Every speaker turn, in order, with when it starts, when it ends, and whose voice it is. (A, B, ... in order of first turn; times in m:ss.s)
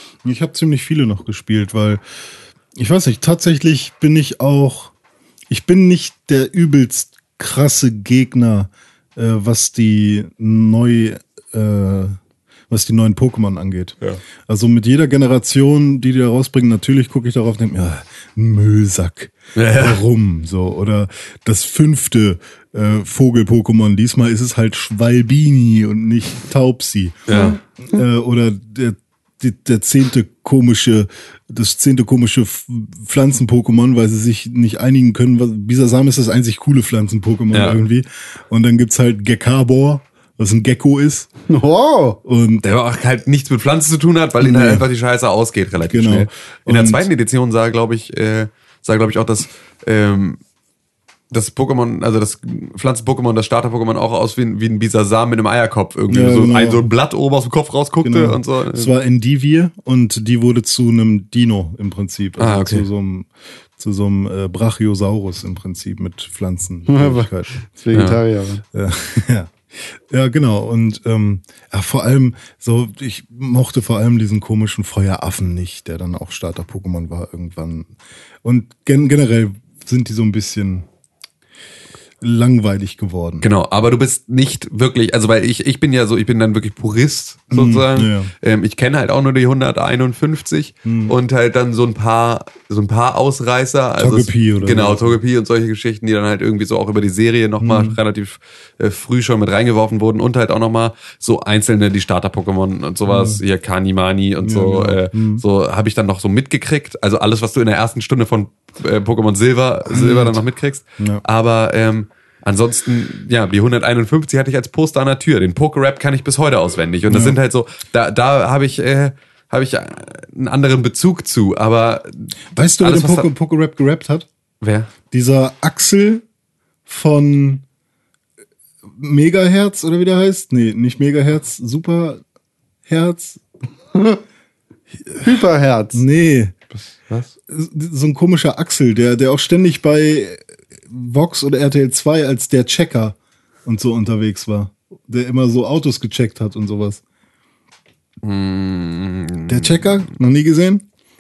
0:00.2-0:02.0 A
0:02.8-0:04.9 A
0:05.5-0:12.2 A
0:12.7-0:41.3 A
0:19.6-0:20.0 B
0:27.3-0:27.6 B
0:37.5-0:37.8 B
0:41.5-0:42.2 C
0:42.2-0:42.6 A
0:42.6-0:50.4 B
0:44.4-0:44.8 A
0:45.8-0:47.1 A
0:51.3-0:58.9 B
0:56.1-0:56.9 A
0:58.0-1:07.5 A
1:02.4-1:02.9 B
1:06.9-1:08.6 C
1:07.9-1:08.2 B
1:08.7-1:17.9 A
1:18.4-1:20.9 A
1:22.2-1:23.4 A
1:23.4-2:03.3 B
1:27.5-1:28.3 A
1:30.8-1:31.2 A
1:34.0-1:35.2 A
1:37.6-1:38.0 A
1:43.1-1:43.4 A
1:44.4-1:45.4 A
1:49.9-1:50.4 A
1:51.0-1:51.2 A
1:57.1-1:57.4 A
2:02.5-2:04.3 A
2:04.6-2:04.9 B
2:05.1-2:06.2 A
2:06.9-2:07.6 A
2:09.0-2:12.2 A
2:12.9-2:13.4 A
2:14.0-2:14.2 C
2:15.0-2:15.4 A
2:15.2-2:16.0 C
2:15.9-2:16.6 A
2:16.7-2:17.3 B
2:17.5-2:27.0 A
2:28.2-2:30.0 B
2:29.5-2:30.8 A